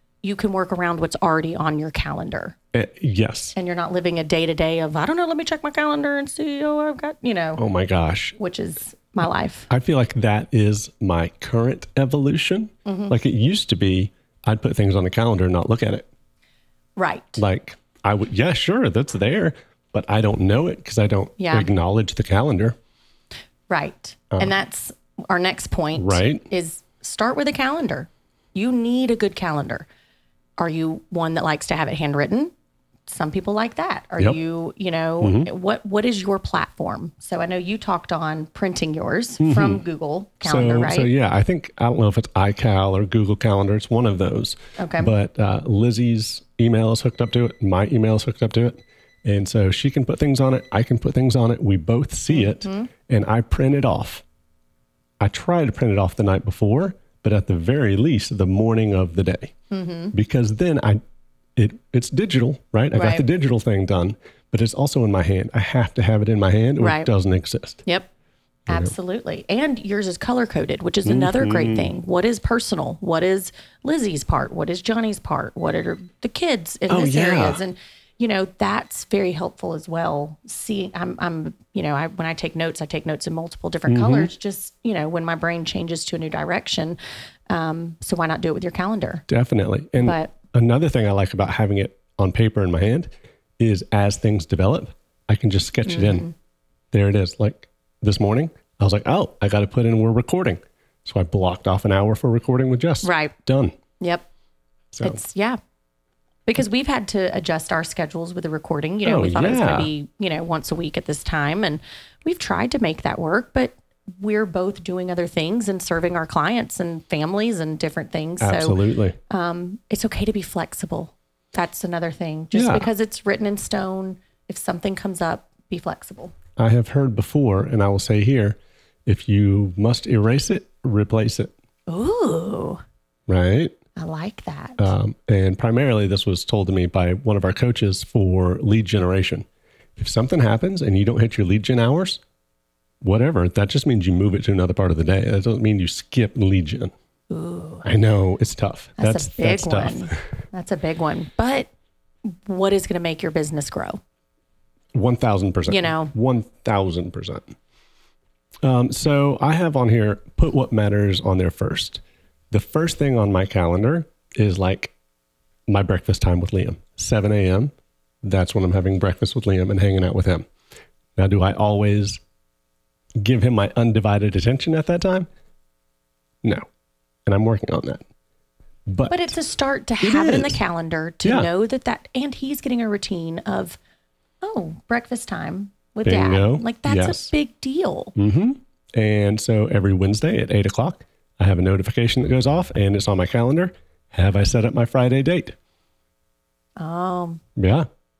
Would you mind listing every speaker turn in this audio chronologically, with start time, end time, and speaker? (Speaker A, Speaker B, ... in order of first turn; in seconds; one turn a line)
Speaker A: 0.2-2.6
Speaker B: 2.7-3.5
Speaker A: 3.5-7.6
Speaker B: 7.6-8.4
Speaker A: 8.4-9.7
Speaker B: 9.7-16.1
Speaker A: 12.8-13.1
Speaker A: 17.0-17.4
Speaker B: 17.4-22.8
Speaker A: 21.4-21.7
Speaker A: 23.7-29.9
Speaker B: 26.0-26.4
Speaker A: 30.6-32.5
Speaker A: 33.1-41.1
Speaker B: 35.2-35.5
Speaker B: 39.4-39.8
Speaker B: 40.4-54.2
Speaker A: 44.8-45.1
Speaker A: 52.3-52.9
Speaker B: 55.2-59.5
Speaker A: 59.7-60.1
Speaker B: 60.1-61.0
Speaker B: 61.6-67.8
Speaker A: 63.0-63.2
Speaker A: 66.8-67.1
Speaker A: 68.7-87.0
Speaker B: 71.0-71.9
Speaker B: 76.9-77.6
Speaker B: 83.9-84.3
Speaker A: 87.5-89.2
Speaker B: 89.3-96.3
Speaker A: 90.0-90.3
Speaker A: 95.9-96.3
Speaker B: 96.9-103.8
Speaker A: 103.0-103.3
Speaker A: 104.0-104.2
Speaker B: 104.9-105.2
Speaker A: 105.0-105.6
Speaker A: 106.5-126.3
Speaker B: 109.0-109.9
Speaker B: 118.4-119.2
Speaker B: 122.5-122.9
Speaker B: 126.6-131.5
Speaker A: 131.9-132.8
Speaker B: 133.3-133.8
Speaker A: 134.0-134.9
Speaker B: 134.8-139.5
Speaker B: 140.0-142.2
Speaker B: 143.0-146.9
Speaker A: 147.3-147.9
Speaker B: 147.8-150.1
Speaker A: 149.0-151.7
Speaker A: 152.2-154.0
Speaker B: 154.9-157.5
Speaker A: 155.7-156.1
Speaker B: 158.6-164.9
Speaker B: 165.7-167.7
Speaker B: 168.2-170.5
Speaker B: 171.2-172.2
Speaker B: 173.2-175.3
Speaker B: 177.3-178.1
Speaker B: 178.9-179.3
Speaker A: 179.1-183.8
Speaker B: 180.0-180.6
Speaker B: 181.2-181.5
Speaker A: 184.4-188.1
Speaker B: 186.0-187.3
Speaker B: 188.2-195.6
Speaker A: 196.8-197.4
Speaker B: 197.6-197.9